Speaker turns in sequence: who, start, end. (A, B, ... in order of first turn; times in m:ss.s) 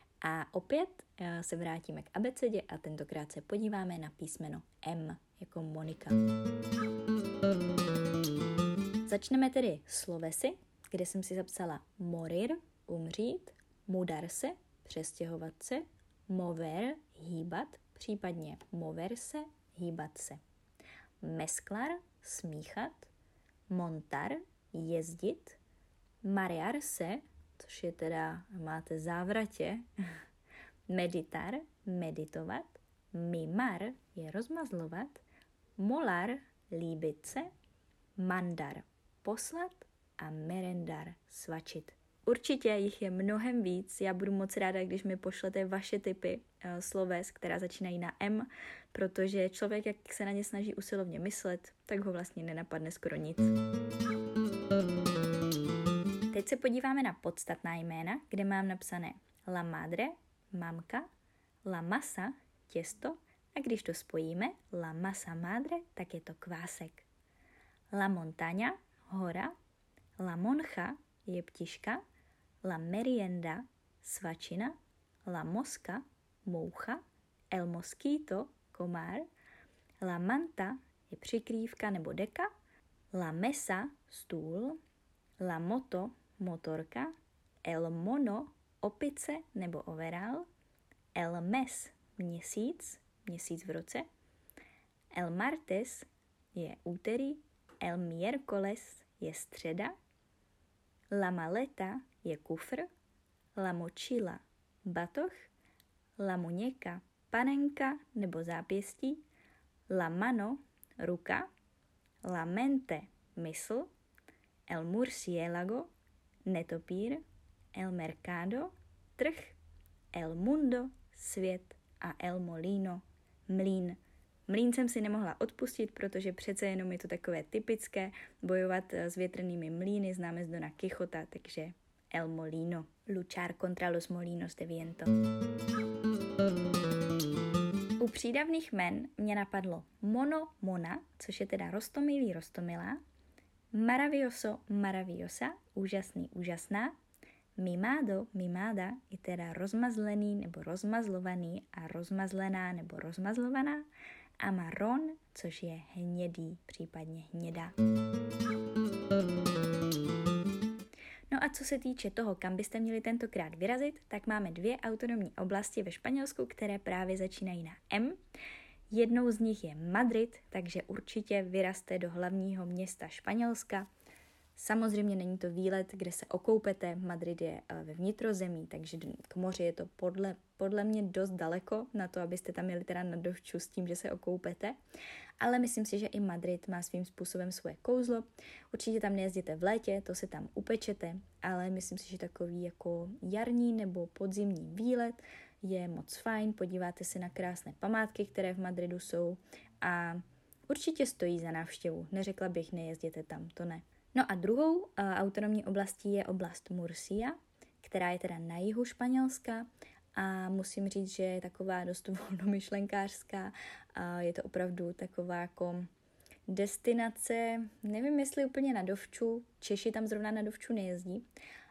0:00.2-0:06.2 A
0:09.0-0:20.4 A
0:21.2-0:23.1 A
0:23.7-0:25.6 A
0:26.2-0:29.8 A
0:30.9-0:35.2 A
0:35.8-0:37.5 A
0:38.2-0:53.5 A
0:56.3-1:01.1 A
1:01.6-1:07.1 A
1:07.9-1:09.5 A
1:10.2-1:12.0 A
1:12.6-1:19.2 A
1:20.0-1:22.5 A
1:23.1-1:24.8 A
1:25.4-1:27.1 A
1:27.6-1:30.5 A
1:31.1-1:34.0 A
1:35.1-1:39.9 A
1:41.1-1:42.9 A
1:43.6-1:45.5 A
1:46.2-1:49.2 A
1:49.9-1:51.5 A
1:52.2-1:53.9 A
1:54.7-1:55.9 A
1:56.4-1:57.2 A
1:57.7-1:59.6 A
2:00.1-2:15.1 A
2:18.0-2:23.0 A
2:23.7-2:26.9 A
2:27.6-2:33.9 A
2:34.4-2:37.7 A
2:41.3-2:48.2 A
2:48.9-2:53.9 A
2:54.6-3:04.8 A
3:05.4-3:35.9 A
3:36.5-3:41.2 A